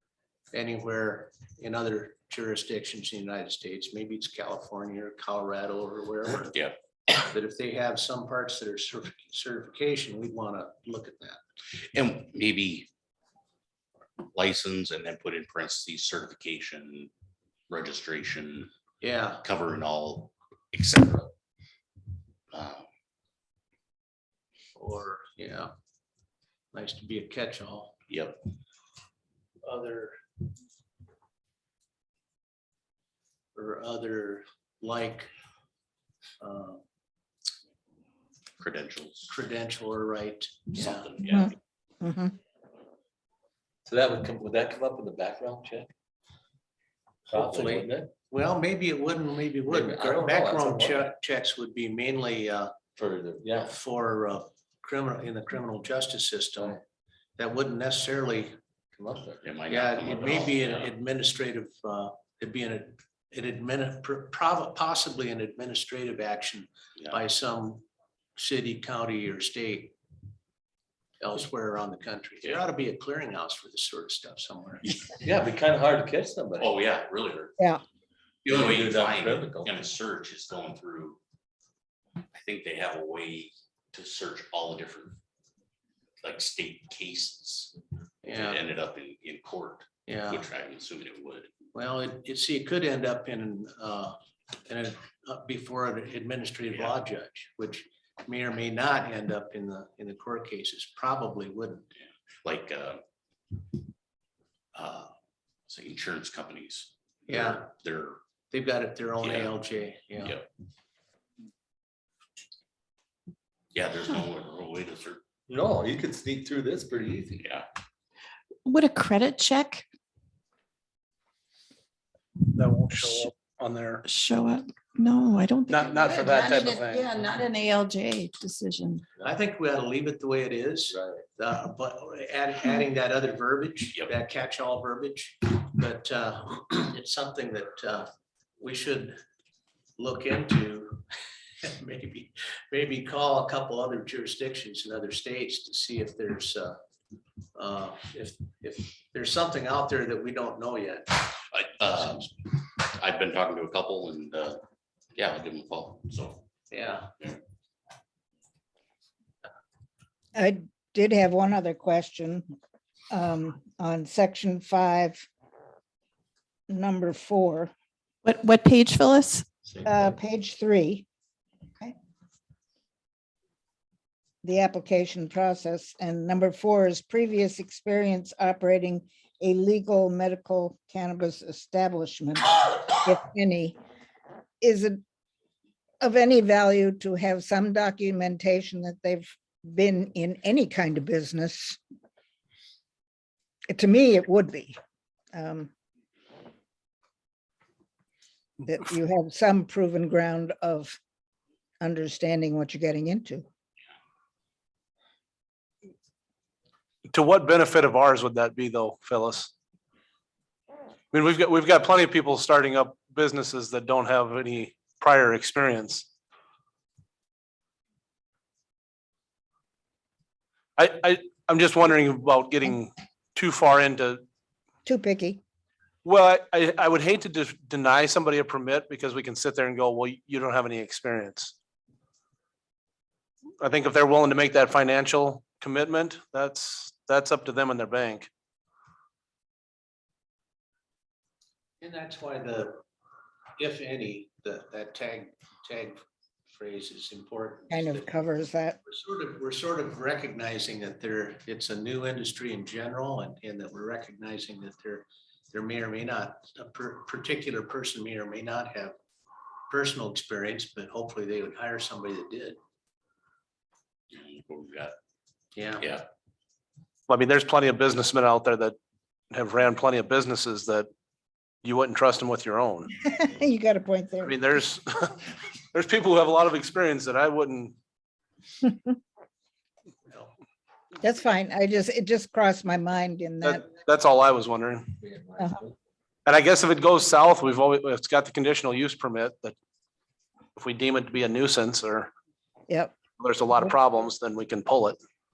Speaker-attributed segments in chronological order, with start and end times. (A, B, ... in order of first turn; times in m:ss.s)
0:00.5-0:06.6 A
0:07.2-0:11.4 A
0:11.9-0:12.9 B
0:14.2-0:17.1 B
0:17.7-0:18.7 B
0:19.0-0:19.4 A
0:19.4-0:21.3 B
0:22.5-0:22.9 B
0:24.8-0:25.7 A
0:26.7-0:27.9 A
0:28.1-0:28.4 B
0:29.6-0:30.2 A
0:33.6-0:35.3 A
0:36.4-0:36.8 A
0:38.6-0:39.3 B
0:39.3-0:41.1 A
0:40.8-0:41.5 B
0:41.3-0:42.3 C
0:43.9-0:45.9 D
0:47.3-0:48.1 D
0:47.3-0:52.8 A
0:49.7-0:51.1 D
0:53.0-0:53.8 D
0:53.6-0:56.8 A
0:57.4-0:58.6 A
0:58.9-0:59.5 D
0:59.4-1:00.9 B
0:59.7-1:07.8 A
1:08.4-1:10.0 A
1:11.2-1:14.9 A
1:15.2-1:16.7 D
1:16.6-1:17.6 B
1:18.4-1:21.2 B
1:18.5-1:19.8 D
1:22.3-1:25.2 B
1:26.2-1:27.8 B
1:28.2-1:28.6 A
1:28.3-1:31.5 B
1:30.1-1:30.5 A
1:31.7-1:41.9 A
1:42.4-1:43.0 B
1:44.7-1:45.2 B
1:45.7-1:48.2 B
1:47.3-1:47.7 A
1:48.5-1:50.4 A
1:49.2-1:49.5 B
1:50.2-1:50.4 B
1:53.7-1:55.2 B
1:55.5-1:57.4 D
1:57.4-1:57.6 B
1:58.6-1:59.9 E
2:02.5-2:04.0 F
2:04.0-2:09.0 E
2:05.7-2:07.2 F
2:09.2-2:19.2 A
2:10.9-2:11.2 D
2:20.0-2:21.0 A
2:21.6-2:26.8 A
2:27.6-2:31.4 A
2:31.5-2:34.6 B
2:31.9-2:32.3 A
2:35.2-2:36.5 B
2:36.7-2:37.1 A
2:40.4-2:42.5 C
2:43.1-2:45.3 C
2:46.7-2:47.7 C
2:48.2-2:49.5 E
2:49.8-2:51.1 C
2:54.4-3:03.8 C
3:04.6-3:05.0 C
3:06.0-3:11.8 C
3:13.7-3:14.8 C
3:15.3-3:15.7 C
3:18.7-3:21.0 C
3:21.8-3:23.4 C
3:27.1-3:29.5 F
3:31.1-3:36.1 F
3:40.8-3:44.2 F
3:44.9-3:45.4 C
3:46.0-3:51.5 F
3:53.6-3:58.3 F
4:01.8-4:02.8 A
4:03.6-4:08.1 A
4:07.7-4:08.8 C
4:08.9-4:19.0 A
4:19.7-4:22.6 A
4:24.1-4:24.9 B
4:25.6-4:25.9 A
4:27.1-4:28.8 F
4:29.3-4:30.9 F
4:31.6-4:32.9 F
4:33.0-4:34.4 C
4:34.2-4:35.2 F
4:35.7-4:37.8 F
4:41.0-4:43.7 C
4:43.4-4:44.9 F
4:45.0-4:45.7 D
4:46.3-4:49.6 F
4:50.6-4:52.1 F
4:52.7-4:53.0 C
4:53.2-4:55.0 F